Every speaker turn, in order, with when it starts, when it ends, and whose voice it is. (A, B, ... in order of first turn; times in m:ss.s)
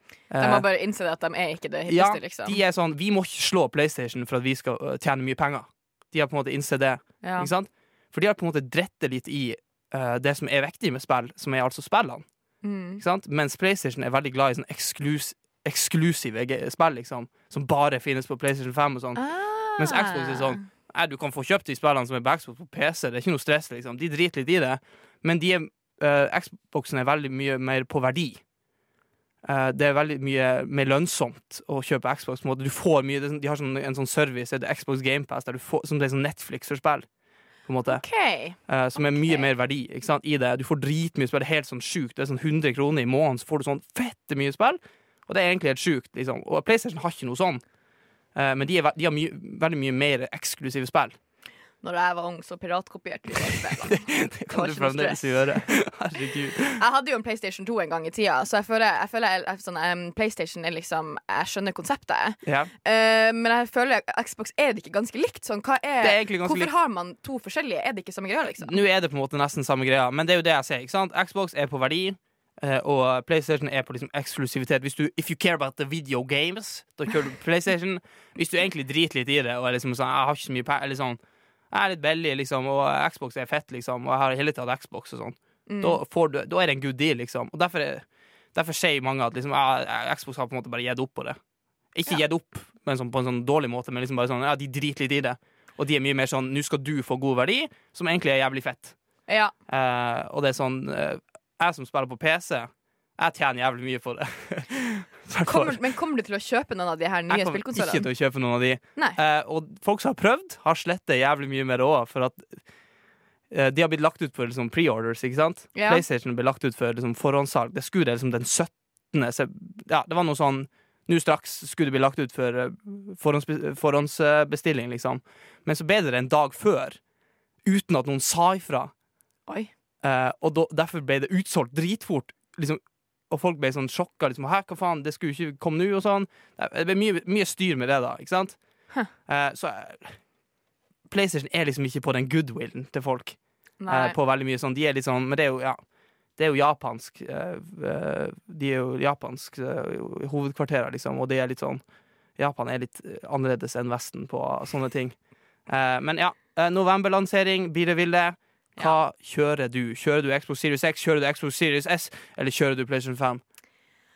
0:00.3-0:00.7 A
0:00.4-0:02.6 B
0:01.9-0:12.3 A
0:07.2-0:07.5 B
0:12.6-0:13.0 B
0:13.0-0:19.2 A
0:19.2-0:20.6 B
0:19.8-0:28.4 A
0:29.4-0:37.1 A
0:37.7-0:47.6 A
0:37.9-0:39.5 B
0:48.4-0:51.2 A
0:51.8-0:55.7 B
0:53.9-0:56.8 A
0:56.8-1:08.8 B
1:02.4-1:02.7 A
1:06.0-1:06.7 A
1:08.6-1:21.2 A
1:21.7-1:31.4 A
1:25.7-1:26.0 B
1:31.9-1:39.0 A
1:39.3-1:39.5 B
1:39.7-1:45.8 A
1:45.4-1:48.1 B
1:47.3-1:52.6 A
1:53.5-2:07.0 A
1:55.8-1:56.0 B
2:07.6-2:08.9 A
2:10.0-2:20.3 A
2:21.1-2:25.8 A
2:23.8-2:24.2 B
2:26.4-2:31.8 A
2:32.4-2:35.2 A
2:35.7-2:43.4 A